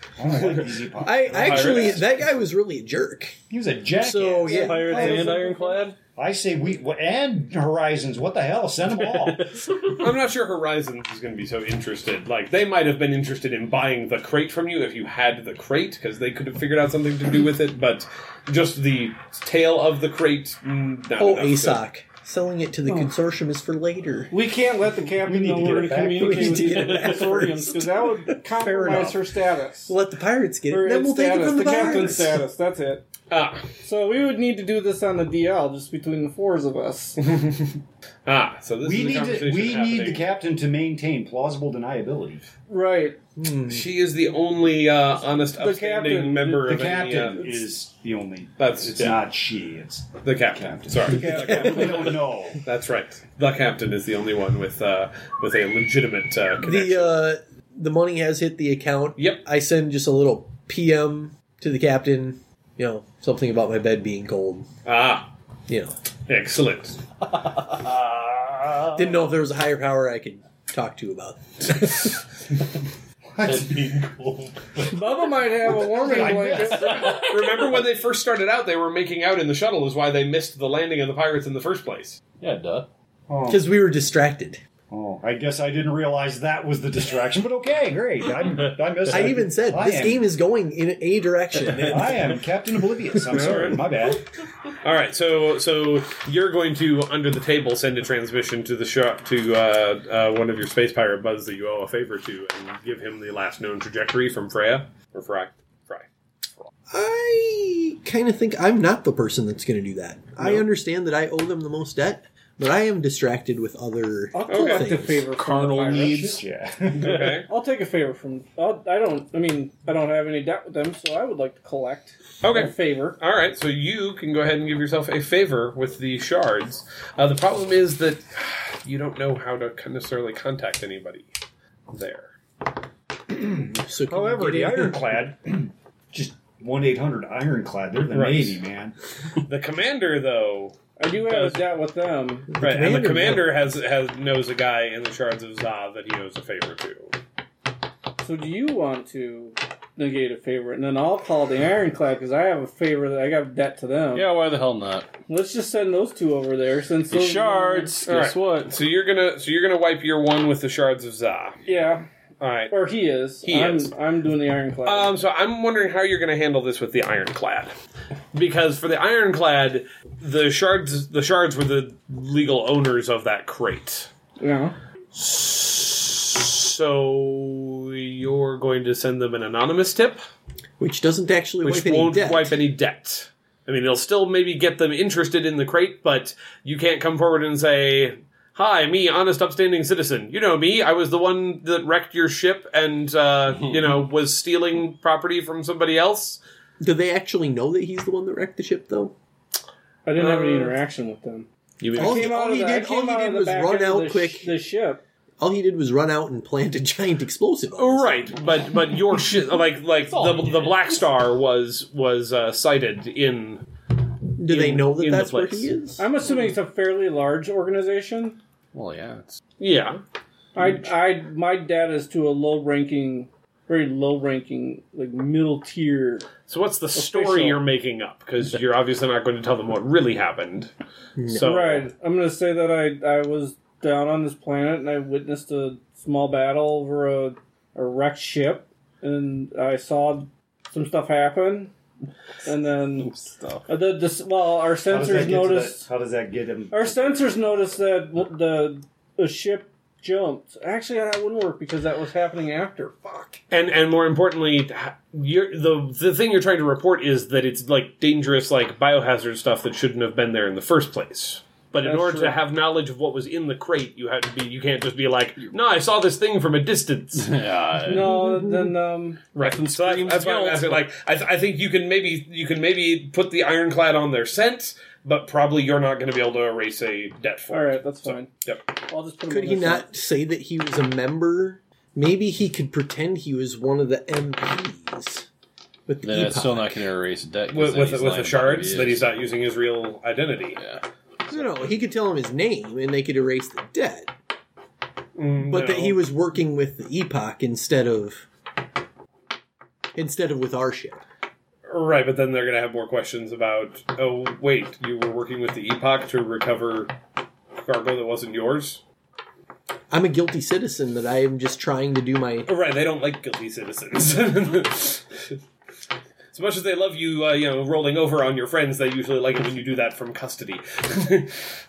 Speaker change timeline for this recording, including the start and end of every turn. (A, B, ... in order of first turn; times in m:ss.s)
0:00.2-0:02.1 A
0:00.4-0:02.1 B
0:01.0-0:03.4 C
0:03.5-0:05.4 A
0:04.0-0:05.2 C
0:04.5-0:06.0 D
0:04.7-0:05.9 E
0:06.2-0:09.6 A
0:09.1-0:09.9 D
0:09.8-0:21.8 B
0:21.2-0:24.3 C
0:22.9-0:23.1 E
0:24.3-0:29.9 E
0:25.2-0:27.0 A
0:26.1-0:28.4 C
0:28.6-0:29.2 A
0:29.9-0:32.4 C
0:30.7-0:33.0 E
0:33.3-0:33.6 B
0:33.8-0:37.2 E
0:37.2-0:40.3 B
0:38.8-0:42.4 A
0:42.7-0:43.2 E
0:43.4-0:43.9 C
0:43.7-0:47.5 B
0:45.6-0:46.8 E
0:46.6-0:52.6 A
0:48.6-0:49.2 B
0:50.2-0:57.3 B
0:51.5-0:51.8 C
0:56.6-1:04.7 C
0:59.2-0:59.4 B
1:04.8-1:05.3 B
1:05.7-1:06.0 C
1:06.3-1:07.0 B
1:07.7-1:09.2 B
1:09.0-1:12.1 C
1:13.4-1:13.9 A
1:13.4-1:15.0 D
1:14.9-1:17.1 E
1:15.7-1:17.3 A
1:16.8-1:17.5 D
1:17.0-1:22.2 B
1:22.4-1:22.9 D
1:23.3-1:23.7 A
1:23.5-1:24.6 C
1:24.9-1:30.3 A
1:29.1-1:32.3 C
1:31.8-1:34.2 A
1:33.3-1:33.8 B
1:34.8-1:46.7 B
1:46.9-1:55.3 C
1:54.3-1:56.3 E
1:54.5-1:57.5 B
1:55.8-1:57.3 A
1:57.5-2:03.2 E
2:02.4-2:11.3 B
2:11.9-2:12.4 B
2:13.3-2:19.0 A
2:13.8-2:15.0 C
2:18.1-2:18.6 B
2:19.4-2:21.6 B
2:21.0-2:22.5 E
2:22.5-2:23.6 C
2:22.6-2:27.2 B
2:28.2-2:34.3 E
2:34.1-2:35.1 D
2:35.3-2:38.0 E
2:37.1-2:38.8 D
2:38.0-2:41.6 B
2:41.7-2:42.1 E
2:42.4-2:42.8 B
2:42.7-2:45.1 E
2:43.4-2:43.9 B
2:44.8-2:47.7 B
2:48.3-2:54.1 B
2:54.4-2:54.8 E
2:55.1-3:00.2 B
3:00.8-3:02.5 C
3:01.6-3:16.4 B
3:16.8-3:19.1 C
3:20.0-3:25.0 E
3:20.2-3:20.8 B
3:21.8-3:22.4 B
3:21.9-3:24.6 C
3:25.4-3:28.3 C
3:27.8-3:33.6 B
3:30.1-3:30.9 D
3:34.4-3:36.0 C
3:34.4-3:35.7 B
3:36.0-3:38.4 E
3:38.7-3:39.4 D
3:39.6-3:40.0 B
3:40.6-3:46.3 E
3:46.5-3:50.7 B
3:47.0-3:47.6 E
3:51.2-3:51.6 C
3:51.2-3:51.8 B
3:51.4-4:01.7 E
4:02.4-4:03.1 E
4:03.2-4:03.6 B
4:03.2-4:03.6 D
4:03.7-4:05.9 E
4:04.9-4:07.4 A
4:06.7-4:13.4 E
4:13.5-4:27.4 B
4:21.8-4:22.4 E
4:27.2-4:28.3 D
4:27.9-4:29.2 E
4:29.4-4:38.7 B
4:29.4-4:30.8 D
4:37.5-4:38.3 E
4:38.9-4:39.9 E
4:39.3-4:45.3 C
4:45.9-4:46.8 C
4:46.0-4:49.1 D
4:47.5-4:50.6 B
4:50.6-4:51.8 D
4:51.3-4:54.1 C
4:55.2-4:56.0 B
4:55.4-4:58.3 C
5:00.0-5:01.0 C
5:01.7-5:06.9 B
5:07.6-5:08.8 B
5:09.9-5:12.5 C
5:12.5-5:15.4 B
5:16.3-5:21.4 B